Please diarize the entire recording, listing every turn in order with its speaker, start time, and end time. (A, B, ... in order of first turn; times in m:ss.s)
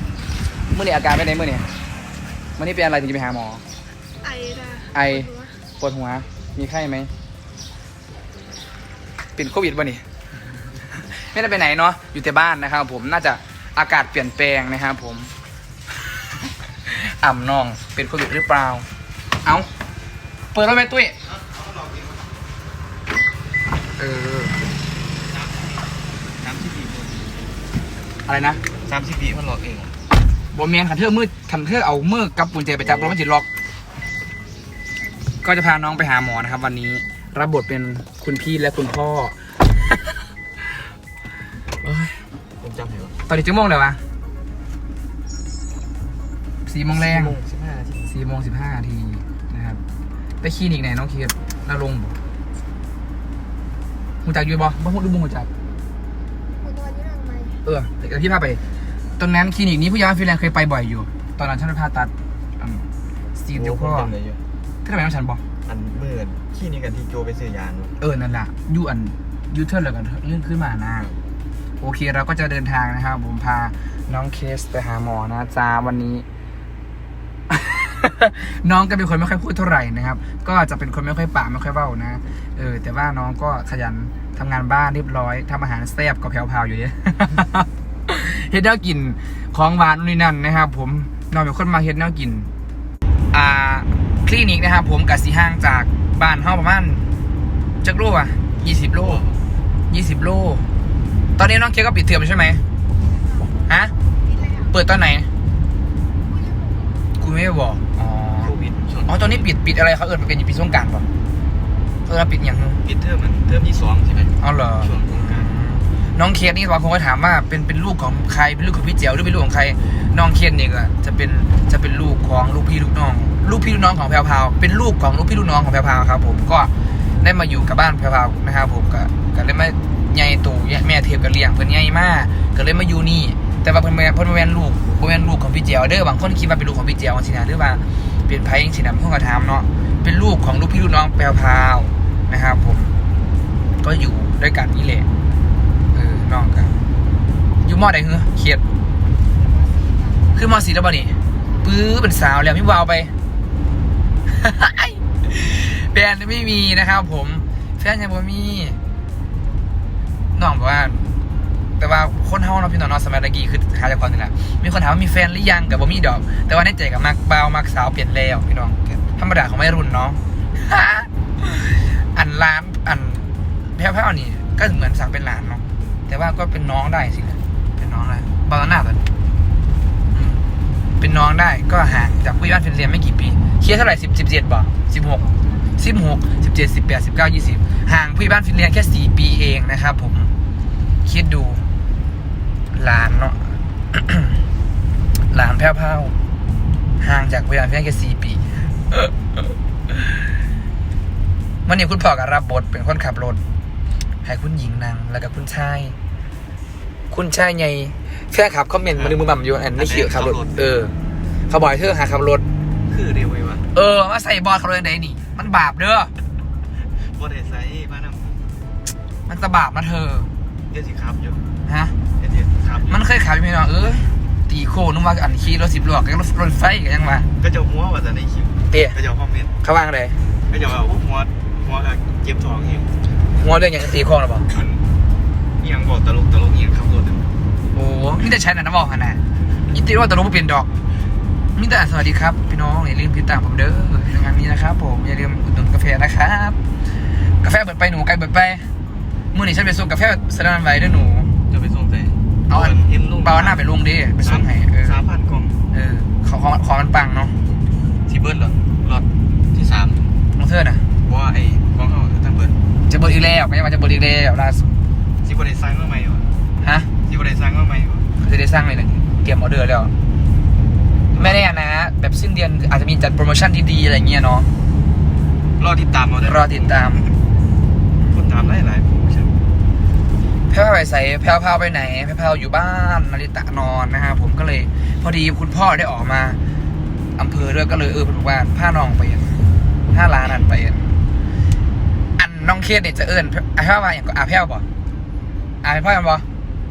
0:00.7-0:01.7 A
0:02.6-0:03.6 A
0:04.2-0:05.6 B
0:04.9-0:07.1 A
0:09.4-0:10.0 A
0:11.1-0:15.3 A
0:16.8-0:18.9 A
0:19.4-0:19.7 A
0:20.5-0:21.2 A
0:21.4-0:22.2 C
0:24.0-0:24.6 A
0:25.3-0:25.8 C
0:26.4-0:27.5 C
0:28.3-0:28.6 A
0:28.8-0:30.0 C
0:30.5-0:33.5 A
0:32.8-0:33.1 C
0:35.4-0:39.4 A
0:41.8-0:42.2 A
0:42.6-0:43.2 C
0:43.3-0:44.0 A
0:46.6-0:47.4 A
0:46.9-0:48.1 C
0:48.1-0:49.8 A
0:50.4-0:52.1 A
0:54.2-0:55.5 A
0:56.6-0:57.6 B
0:57.6-0:58.6 A
0:59.2-1:04.1 A
1:03.5-1:04.4 C
1:04.8-1:05.4 A
1:05.7-1:07.9 C
1:08.0-1:11.1 A
1:11.8-1:16.2 A
1:17.5-1:32.5 A
1:33.3-1:37.0 A
1:37.8-1:39.2 A
1:38.6-1:39.4 C
1:39.9-1:40.6 A
1:41.4-1:42.6 A
1:43.1-1:43.5 B
1:44.2-1:44.7 B
1:44.7-1:45.3 A
1:46.2-1:47.1 B
1:47.2-1:48.5 A
1:48.4-1:49.5 C
1:49.1-1:51.1 A
1:52.1-1:52.8 A
1:52.8-1:55.5 C
1:54.4-2:22.9 A
2:23.8-2:25.1 A
2:25.9-2:26.8 A
2:27.6-2:28.6 A
2:29.4-2:30.6 B
2:30.4-2:33.1 A
2:34.3-2:38.8 A
2:40.4-2:41.1 A
2:41.8-2:59.0 A
3:00.1-3:00.4 A
3:01.0-3:05.2 A
3:05.8-3:10.3 A
3:11.0-3:11.6 A
3:12.7-3:14.4 A
3:15.3-3:16.1 A
3:17.0-3:19.1 A
3:21.6-3:23.4 A
3:24.2-3:26.0 A
3:27.1-3:30.9 A
3:28.9-3:29.2 C
3:29.8-3:30.7 C
3:31.5-3:32.4 A
3:32.9-3:33.7 C
3:33.7-3:36.1 A
3:37.1-3:38.4 C
3:39.3-3:40.3 A
3:40.7-3:41.4 C
3:41.7-3:41.9 A
3:42.2-3:43.0 C
3:42.9-3:47.3 A
3:47.4-3:49.5 C
3:48.7-3:49.0 A
3:49.6-3:50.2 A
3:50.5-3:52.9 C
3:53.4-3:54.5 A
3:54.5-3:54.8 C
3:55.6-3:57.3 C
3:57.7-4:00.7 A
4:01.6-4:06.6 A
4:07.4-4:08.7 A
4:09.3-4:11.3 A
4:11.5-4:13.6 C
4:12.5-4:15.0 A
4:14.2-4:15.6 C
4:15.7-4:17.4 A
4:18.1-4:20.2 C
4:20.4-4:20.8 A
4:21.0-4:22.6 C
4:22.9-4:24.7 A
4:25.2-4:26.3 C
4:26.6-4:26.9 A
4:27.1-4:28.1 C
4:28.2-4:29.9 A
4:31.1-4:31.5 C
4:31.2-4:34.5 A
4:35.6-4:37.1 C
4:36.2-4:37.1 A
4:38.1-4:39.4 C
4:40.5-4:46.4 A
4:47.2-4:51.0 A
4:52.2-4:54.7 A
4:55.6-4:56.2 A